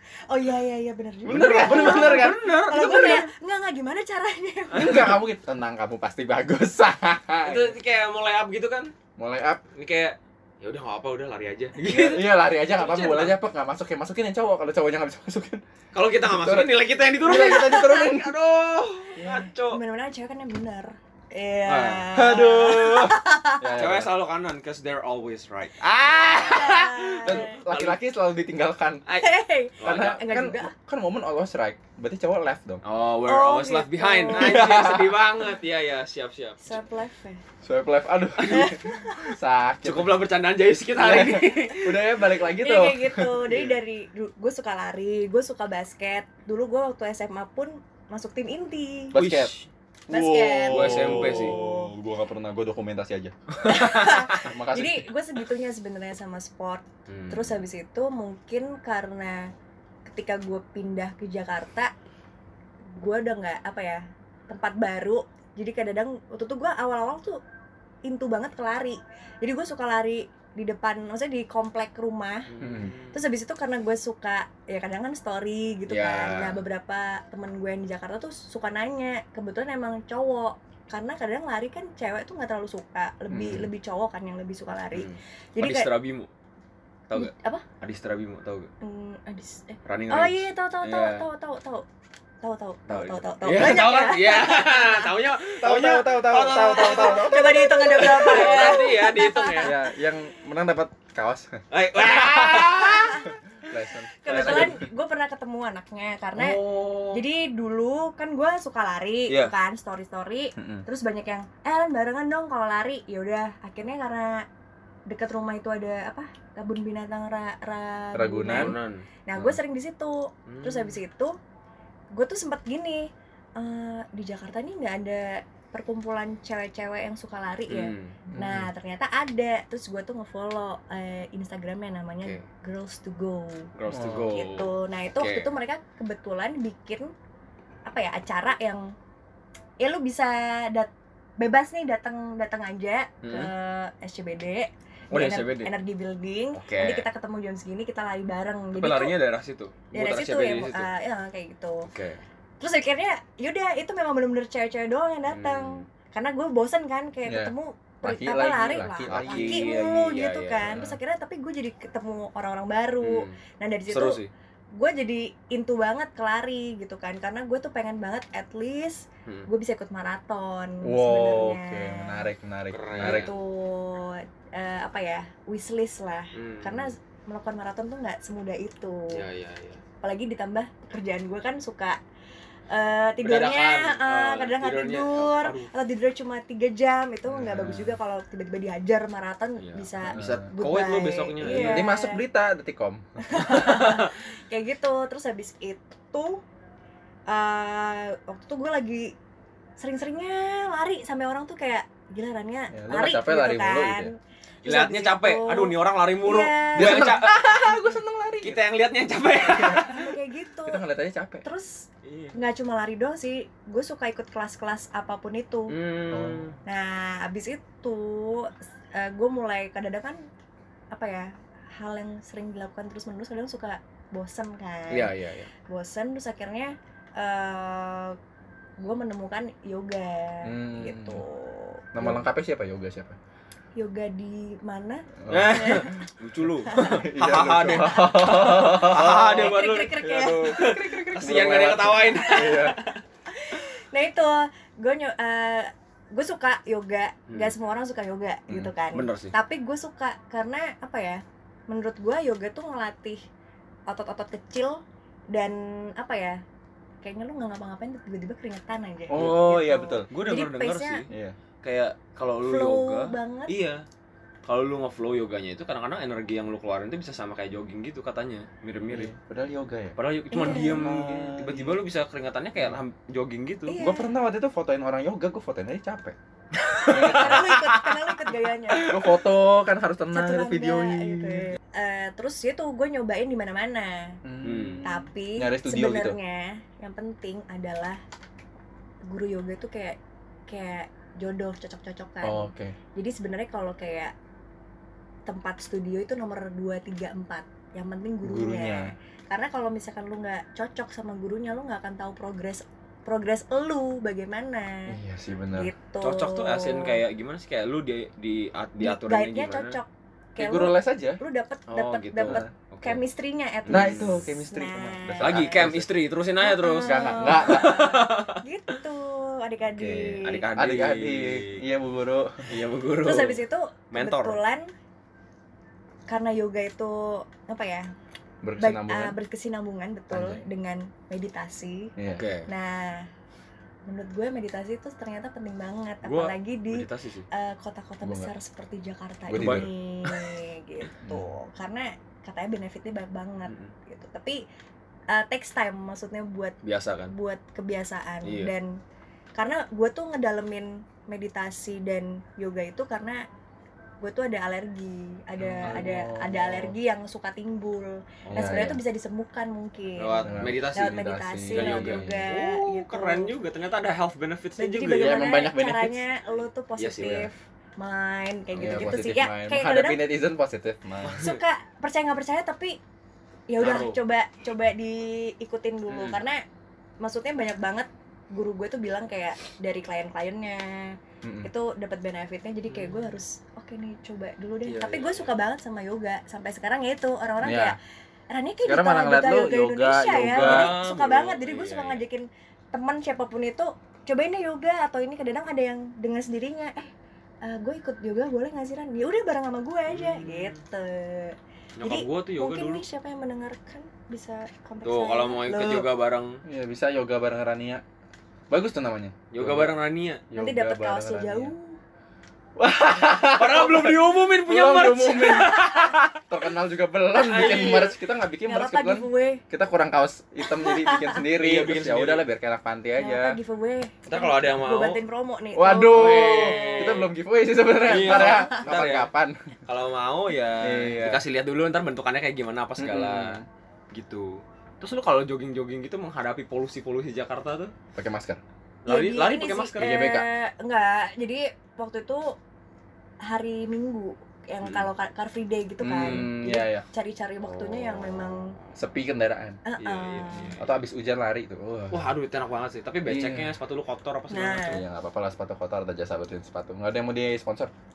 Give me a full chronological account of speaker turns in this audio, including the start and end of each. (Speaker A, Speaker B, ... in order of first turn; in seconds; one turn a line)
Speaker A: 0.3-5.0
Speaker B: 1.2-2.5
Speaker C: 1.3-3.3
Speaker C: 4.7-5.2
Speaker B: 4.7-7.7
Speaker C: 7.4-8.9
Speaker B: 9.2-9.6
Speaker C: 9.7-13.3
Speaker B: 11.8-15.6
Speaker C: 15.9-19.8
Speaker B: 16.2-18.3
Speaker A: 17.3-18.1
Speaker B: 19.2-19.5
Speaker A: 19.2-23.7
Speaker C: 21.7-22.1
Speaker B: 21.8-24.1
Speaker C: 23.8-28.0
Speaker B: 26.1-29.0
Speaker A: 26.3-27.6
Speaker C: 29.1-30.2
Speaker A: 29.1-30.7
Speaker B: 29.8-32.8
Speaker C: 32.8-36.8
Speaker A: 33.2-34.7
Speaker B: 34.3-35.2
Speaker A: 36.6-37.4
Speaker B: 37.6-40.2
Speaker C: 38.4-38.7
Speaker A: 38.5-39.3
Speaker C: 39.8-42.1
Speaker B: 41.0-43.6
Speaker A: 42.5-49.1
Speaker C: 43.5-43.8
Speaker B: 49.1-49.5
Speaker C: 49.1-49.7
Speaker B: 50.1-53.3
Speaker A: 50.1-51.9
Speaker C: 50.7-51.6
Speaker C: 53.6-54.5
Speaker A: 53.6-59.5
Speaker B: 54.4-55.1
Speaker C: 57.1-57.6
Speaker A: 60.0-61.9
Speaker A: 63.0-67.4
Speaker A: 68.0-72.5
Speaker C: 72.5-73.2
Speaker B: 72.6-72.9
Speaker A: 73.1-85.9
Speaker C: 75.9-76.6
Speaker B: 83.3-83.7
Speaker C: 84.9-86.3
Speaker C: 87.1-88.7
Speaker A: 87.1-87.6
Speaker A: 88.8-91.8
Speaker C: 89.8-91.3
Speaker A: 92.4-95.1
Speaker C: 92.9-99.8
Speaker B: 95.6-97.7
Speaker A: 96.6-99.7
Speaker B: 99.6-102.7
Speaker C: 101.7-103.3
Speaker A: 102.4-103.3
Speaker B: 103.2-104.8
Speaker A: 104.2-114.4
Speaker C: 104.2-104.8
Speaker C: 106.3-107.2
Speaker B: 110.6-110.8
Speaker A: 115.1-121.3
Speaker B: 118.1-118.8
Speaker C: 118.5-119.0
Speaker C: 120.5-121.0
Speaker A: 122.1-137.1
Speaker C: 127.7-128.2
Speaker B: 128.3-128.7
Speaker C: 133.7-135.5
Speaker B: 133.9-134.4
Speaker A: 137.9-138.9
Speaker A: 139.8-149.2
Speaker C: 143.2-143.5
Speaker C: 145.1-145.7
Speaker C: 146.5-147.1
Speaker C: 148.7-150.9
Speaker A: 149.9-151.9
Speaker C: 151.8-152.2
Speaker A: 152.6-164.2
Speaker C: 155.3-155.9
Speaker B: 157.2-159.7
Speaker C: 159.1-160.8
Speaker B: 160.6-161.0
Speaker C: 163.0-164.3
Speaker A: 164.7-172.3
Speaker B: 170.8-173.3
Speaker C: 172.7-173.3
Speaker A: 173.0-179.2
Speaker C: 176.3-176.9
Speaker C: 179.1-179.8
Speaker A: 180.0-182.0
Speaker A: 182.7-192.2
Speaker C: 183.2-185.7
Speaker B: 187.3-188.0
Speaker C: 189.6-191.9
Speaker B: 190.1-190.5
Speaker B: 191.4-193.0
Speaker A: 193.2-196.4
Speaker C: 193.4-194.2
Speaker A: 197.3-199.1
Speaker A: 199.8-207.2
Speaker B: 202.7-204.1
Speaker C: 204.6-207.4
Speaker B: 206.8-208.6
Speaker C: 208.4-210.1
Speaker B: 209.4-210.0
Speaker A: 209.8-210.8
Speaker B: 210.6-211.4
Speaker A: 211.4-215.8
Speaker C: 212.0-212.3
Speaker C: 215.7-216.6
Speaker B: 216.1-216.5
Speaker A: 216.7-220.2
Speaker A: 220.9-225.1
Speaker C: 224.9-225.5
Speaker A: 225.7-228.2
Speaker A: 228.8-232.2
Speaker B: 230.4-231.2
Speaker B: 231.9-233.2
Speaker A: 233.8-235.9
Speaker B: 235.2-236.0
Speaker C: 235.3-243.0
Speaker A: 236.7-237.0
Speaker B: 236.9-242.8
Speaker A: 239.1-253.2
Speaker C: 248.9-249.3
Speaker A: 253.9-254.8
Speaker A: 255.3-256.4
Speaker A: 257.0-261.0
Speaker B: 259.1-260.1
Speaker C: 259.1-259.4
Speaker C: 260.1-261.1
Speaker B: 261.1-261.4
Speaker C: 261.6-263.8
Speaker A: 262.4-263.5
Speaker C: 264.4-269.1
Speaker B: 268.9-271.8
Speaker C: 270.0-273.8
Speaker A: 270.3-270.9
Speaker A: 273.7-274.1
Speaker B: 273.8-276.1
Speaker C: 276.5-279.1
Speaker A: 276.8-278.9
Speaker B: 276.9-277.5
Speaker B: 278.9-281.6
Speaker A: 280.1-284.2
Speaker B: 284.2-286.2
Speaker C: 284.4-284.9
Speaker A: 284.8-288.0
Speaker A: 289.1-294.1
Speaker B: 292.2-292.8
Speaker A: 295.2-305.0
Speaker B: 298.2-298.9
Speaker B: 304.9-305.7
Speaker A: 305.5-307.0
Speaker C: 306.0-309.8
Speaker A: 308.8-315.6
Speaker B: 310.4-311.2
Speaker C: 311.7-313.0
Speaker C: 313.6-314.3
Speaker B: 313.7-315.9
Speaker C: 315.2-318.4
Speaker A: 316.4-320.4
Speaker B: 316.8-317.9
Speaker C: 319.6-321.6
Speaker B: 320.5-322.6
Speaker C: 322.5-323.4
Speaker A: 323.0-324.7
Speaker C: 323.9-324.4
Speaker A: 326.1-327.9
Speaker B: 328.4-329.2
Speaker A: 328.6-331.9
Speaker B: 330.1-330.4
Speaker B: 332.0-332.2
Speaker C: 332.1-332.5
Speaker A: 332.5-333.1
Speaker A: 333.9-344.4
Speaker C: 336.0-337.3
Speaker B: 338.0-338.3
Speaker B: 339.3-339.7
Speaker C: 339.3-340.4
Speaker C: 343.4-343.7
Speaker A: 345.1-346.5
Speaker C: 346.6-347.1
Speaker A: 347.1-348.8
Speaker C: 348.2-348.5
Speaker A: 349.4-353.2
Speaker A: 354.0-363.3
Speaker B: 355.4-356.8
Speaker C: 358.2-358.8
Speaker B: 358.3-358.8
Speaker C: 360.0-360.9
Speaker B: 360.2-362.2
Speaker C: 361.5-365.2
Speaker A: 364.6-370.0
Speaker B: 365.0-366.0
Speaker C: 366.8-367.3
Speaker B: 367.0-367.3
Speaker C: 368.5-368.9
Speaker B: 368.6-371.2
Speaker C: 371.0-371.4
Speaker A: 371.1-372.8
Speaker A: 373.5-376.4
Speaker C: 373.6-374.0
Speaker C: 375.9-376.2
Speaker A: 377.0-380.9
Speaker B: 381.2-381.5
Speaker A: 381.4-387.8
Speaker C: 382.7-383.1
Speaker C: 384.6-385.3
Speaker B: 387.4-387.8
Speaker A: 388.3-396.9
Speaker B: 388.6-390.7
Speaker C: 390.1-392.0
Speaker A: 397.4-405.9
Speaker C: 399.9-400.6
Speaker C: 401.8-402.8
Speaker C: 404.8-406.4
Speaker B: 406.4-407.8
Speaker B: 408.5-409.7
Speaker C: 409.3-410.2
Speaker B: 410.3-411.5
Speaker A: 410.3-411.8
Speaker B: 412.6-423.4
Speaker C: 413.3-416.2
Speaker C: 417.2-417.9
Speaker A: 417.3-417.9
Speaker A: 418.4-419.4
Speaker A: 420.5-421.2
Speaker C: 421.2-422.2
Speaker A: 423.0-426.9
Speaker C: 424.1-425.0
Speaker B: 425.5-429.5
Speaker C: 425.9-427.1
Speaker C: 427.8-429.1
Speaker A: 427.9-428.6
Speaker C: 429.6-437.7
Speaker B: 430.6-431.2
Speaker B: 432.8-433.4
Speaker B: 437.9-438.4
Speaker C: 438.9-440.0
Speaker A: 438.9-442.4
Speaker B: 439.8-440.2
Speaker A: 443.2-448.5
Speaker C: 444.6-444.9
Speaker B: 445.8-446.8
Speaker C: 447.4-448.8
Speaker B: 448.8-449.6
Speaker A: 449.6-450.5
Speaker C: 449.8-450.7
Speaker B: 450.6-452.1
Speaker C: 451.9-454.8
Speaker B: 453.1-453.6
Speaker A: 454.3-454.8
Speaker B: 454.6-457.7